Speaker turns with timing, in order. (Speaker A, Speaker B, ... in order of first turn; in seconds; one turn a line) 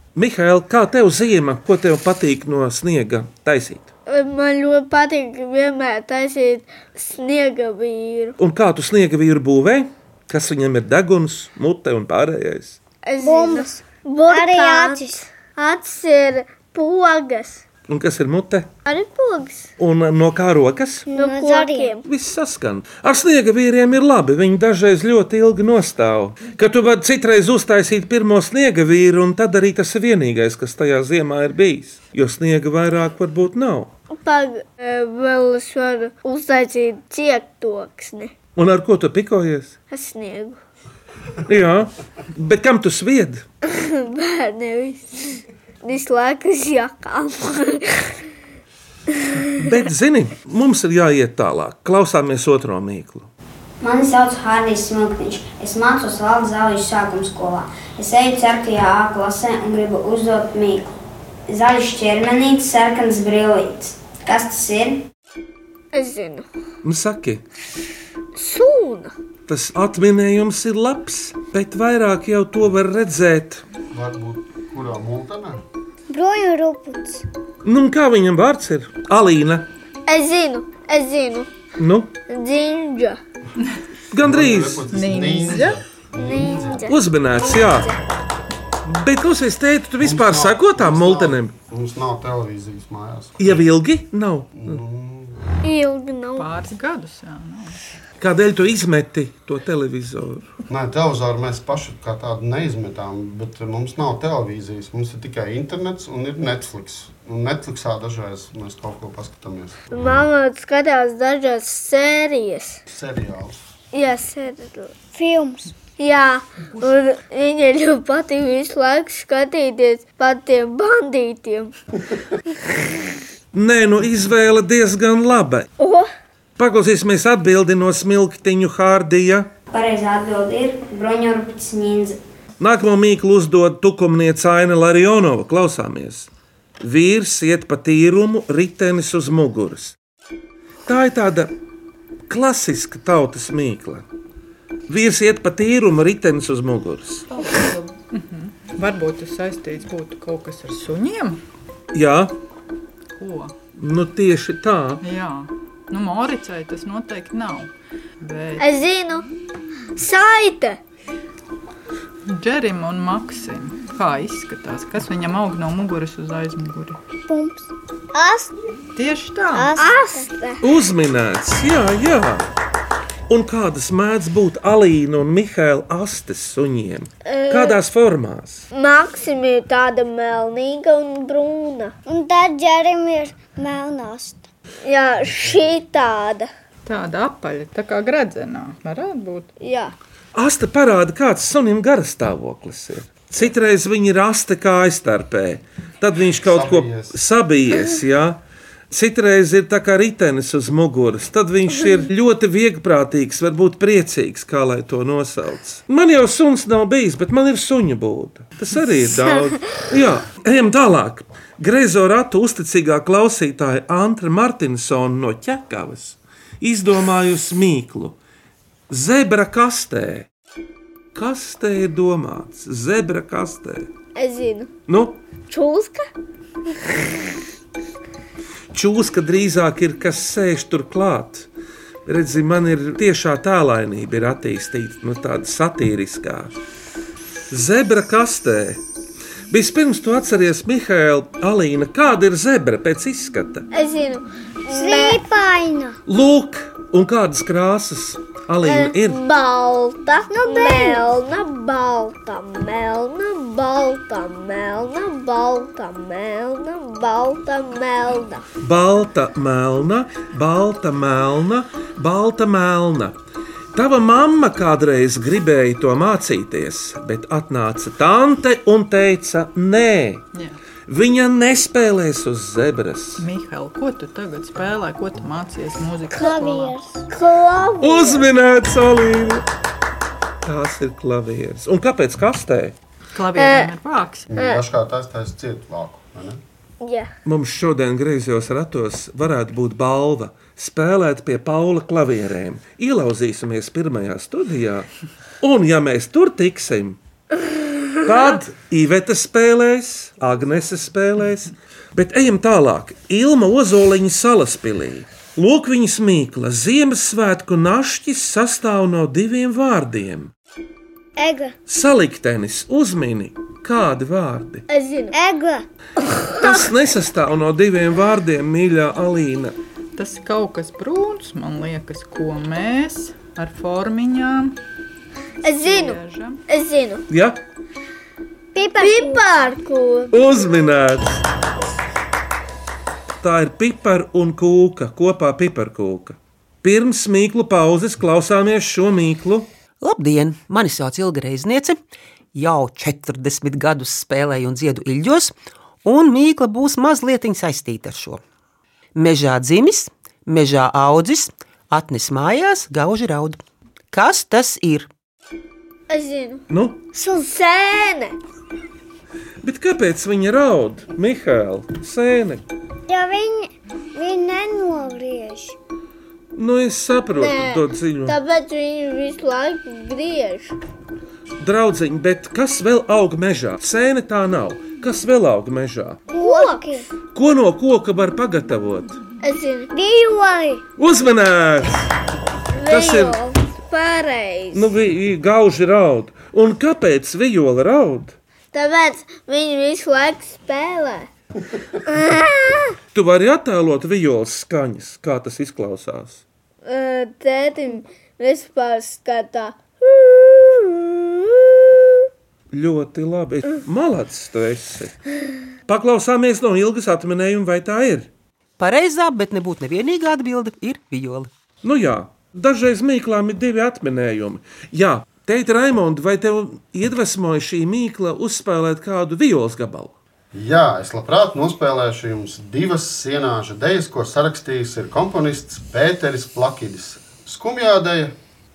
Speaker A: 0.1-3.9
Speaker B: 4.1-8.3
Speaker A: 8.4-12.8
Speaker B: 13.1-17.6
Speaker C: 13.2-15.2
Speaker A: 17.9-18.7
Speaker B: 18.9-19.7
Speaker A: 19.8-21.1
Speaker C: 21.1-22.0
Speaker B: 21.1-22.0
Speaker A: 22.0-33.9
Speaker B: 34.1-38.3
Speaker A: 38.6-39.8
Speaker B: 39.9-40.6
Speaker A: 41.5-43.4
Speaker B: 43.7-48.1
Speaker A: 49.6-53.3
Speaker D: 53.8-61.0
Speaker D: 61.5-65.1
Speaker B: 65.9-66.5
Speaker A: 66.8-67.4
Speaker B: 68.3-69.1
Speaker A: 69.5-73.6
Speaker E: 73.9-75.6
Speaker C: 76.1-77.3
Speaker A: 77.6-79.7
Speaker B: 80.1-81.5
Speaker A: 81.8-82.1
Speaker B: 82.3-83.2
Speaker A: 84.1-84.9
Speaker E: 84.2-86.9
Speaker F: 84.9-85.8
Speaker B: 86.2-88.0
Speaker A: 86.9-87.9
Speaker A: 88.9-91.5
Speaker E: 90.0-93.6
Speaker A: 93.4-94.8
Speaker E: 94.6-95.5
Speaker B: 95.6-96.5
Speaker F: 96.4-97.8
Speaker A: 98.2-100.5
Speaker E: 100.7-109.9
Speaker B: 109.9-112.8
Speaker E: 112.9-113.7
Speaker B: 113.9-114.9
Speaker C: 115.1-115.7
Speaker B: 116.0-121.8
Speaker A: 123.5-125.7
Speaker B: 125.8-126.1
Speaker A: 126.6-129.5
Speaker D: 129.7-132.2
Speaker A: 132.6-136.3
Speaker A: 136.8-140.0
Speaker A: 140.9-141.5
Speaker A: 142.3-144.0
Speaker A: 144.9-147.3
Speaker F: 147.3-151.4
Speaker A: 151.9-152.3
Speaker F: 153.1-153.5
Speaker A: 153.8-155.0
Speaker F: 155.0-158.8
Speaker B: 158.6-159.3
Speaker B: 160.0-160.8
Speaker F: 162.3-167.0
Speaker C: 167.3-168.5
Speaker F: 169.0-169.8
Speaker C: 169.5-170.3
Speaker B: 169.8-170.6
Speaker A: 170.6-172.5
Speaker A: 173.3-178.7
Speaker B: 177.3-177.8
Speaker B: 178.7-181.9
Speaker C: 182.1-184.5
Speaker B: 184.8-186.5
Speaker F: 186.9-189.5
Speaker B: 189.6-189.9
Speaker A: 190.3-218.2
Speaker E: 196.4-197.2
Speaker A: 218.9-220.3
Speaker A: 221.2-223.9
Speaker B: 224.2-224.7
Speaker A: 224.9-225.2
Speaker B: 225.5-226.1
Speaker A: 228.7-231.5
Speaker A: 232.1-236.5
Speaker A: 237.5-238.8
Speaker A: 239.5-243.7
Speaker B: 243.7-245.2
Speaker C: 244.7-246.0
Speaker A: 246.1-249.2
Speaker B: 248.6-258.4
Speaker C: 250.3-251.1
Speaker A: 258.6-263.2
Speaker A: 263.7-270.2
Speaker A: 270.9-273.2
Speaker F: 273.2-276.8
Speaker C: 276.1-277.1
Speaker B: 277.1-278.2
Speaker A: 277.8-279.4
Speaker A: 280.4-282.8
Speaker F: 283.1-284.3
Speaker B: 283.4-283.7
Speaker E: 284.3-286.4
Speaker B: 284.4-284.6
Speaker B: 286.8-287.1
Speaker A: 287.2-294.9
Speaker A: 295.4-297.0
Speaker A: 298.0-310.3
Speaker C: 311.2-311.5
Speaker A: 311.7-314.7
Speaker B: 314.7-315.1
Speaker C: 315.1-315.6
Speaker A: 316.3-319.6
Speaker F: 320.0-324.6
Speaker B: 325.4-326.0
Speaker F: 325.6-326.4
Speaker B: 326.5-327.0
Speaker A: 327.1-327.4
Speaker C: 328.5-329.2
Speaker B: 328.8-330.2
Speaker A: 330.1-331.2
Speaker A: 333.2-339.5
Speaker G: 339.8-341.8
Speaker G: 342.4-348.2
Speaker G: 348.9-353.4
Speaker G: 353.9-354.9
Speaker B: 355.9-356.4
Speaker A: 356.5-356.8
Speaker C: 356.9-357.2
Speaker B: 357.1-358.2
Speaker A: 359.4-362.4
Speaker C: 362.9-365.6
Speaker A: 366.4-368.2
Speaker B: 367.1-370.6
Speaker A: 371.4-376.0
Speaker C: 376.1-376.9
Speaker B: 376.2-376.7
Speaker A: 377.1-379.0
Speaker B: 379.2-379.7
Speaker C: 379.7-380.6
Speaker A: 380.8-381.8
Speaker B: 382.5-384.7
Speaker A: 382.7-383.2
Speaker A: 384.5-388.2
Speaker B: 388.5-391.1
Speaker B: 391.9-392.8
Speaker A: 392.9-396.2
Speaker B: 396.6-402.1
Speaker A: 402.5-405.0
Speaker A: 405.7-408.1
Speaker G: 408.6-411.3
Speaker A: 411.6-419.9
Speaker E: 420.3-428.1